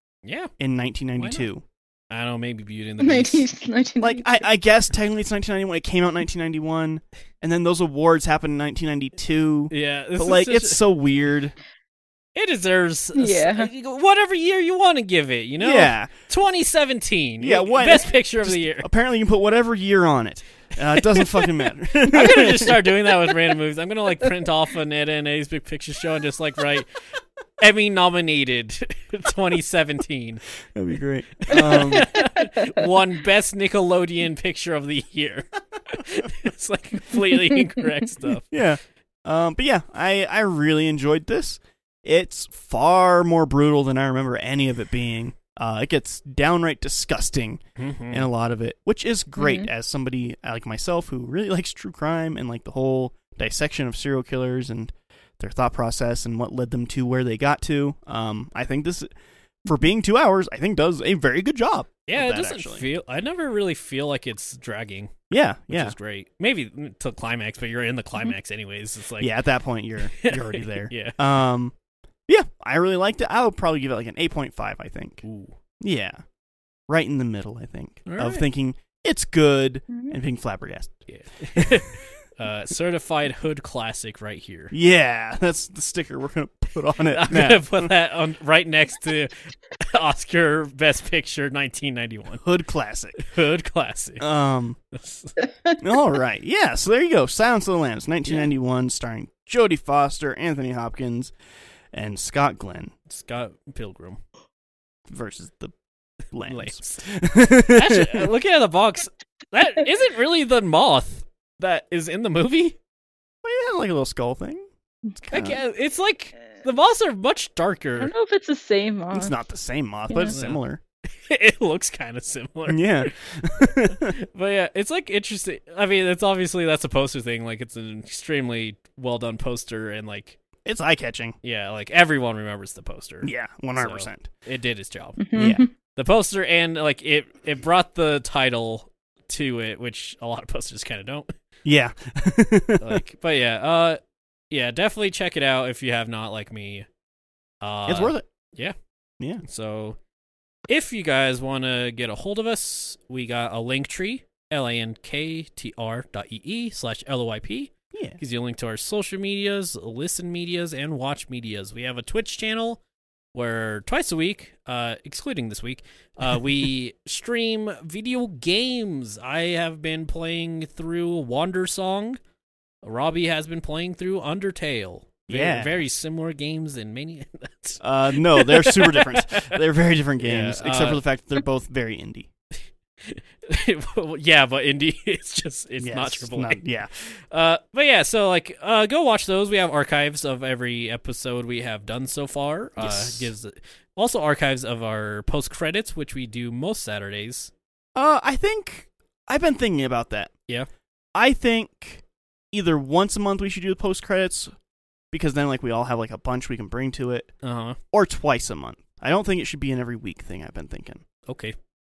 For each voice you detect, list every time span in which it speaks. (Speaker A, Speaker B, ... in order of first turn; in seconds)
Speaker A: 0.2-0.5, 1.2-1.4, 2.1-3.5, 9.7-10.8, 12.3-18.9, 20.9-21.5, 22.0-26.9, 27.6-30.6, 31.4-38.5, 47.8-48.3, 62.1-69.3, 70.1-71.2, 75.2-75.5, 78.0-78.4, 81.1-84.7, 87.1-92.4, 93.2-94.2, 94.9-95.3, 103.1-104.2, 106.5-107.0, 107.7-112.8, 115.3-118.1, 120.2-120.6, 121.1-123.1, 123.6-130.4, 131.4-141.3, 142.8-144.0, 144.5-146.9, 147.6-148.7, 149.4-150.0, 150.7-162.8, 163.3-172.2, 172.8-179.6, 180.2-181.0, 183.0-197.5, 207.4-207.8, 211.2-211.6
Speaker B: 0.6-1.6, 4.0-11.5, 15.6-16.1, 17.4-22.9, 30.7-32.1, 38.5-59.1, 59.6-62.9, 65.3-65.9, 69.2-71.7, 72.3-75.2, 75.8-76.2, 76.9-81.0, 81.5-81.8, 84.7-87.9, 92.4-93.2, 94.2-94.8, 95.8-101.3, 101.9-102.9, 105.1-105.7, 106.3-108.3, 113.4-115.6, 119.1-120.8, 122.7-124.1, 130.6-131.3, 133.2-134.3, 135.3-135.6, 141.6-143.0, 147.8-148.3, 157.9-158.2, 175.3-175.8, 177.8-182.3, 185.8-186.9, 192.8-193.3, 197.9-200.3, 201.1-204.5, 205.1-207.3, 207.9-211.0
Speaker C: 3.0-4.4, 13.1-13.7, 32.1-32.8, 49.4-49.7, 79.9-80.2, 95.4-95.8, 118.0-119.3, 120.1-120.3, 135.2-135.7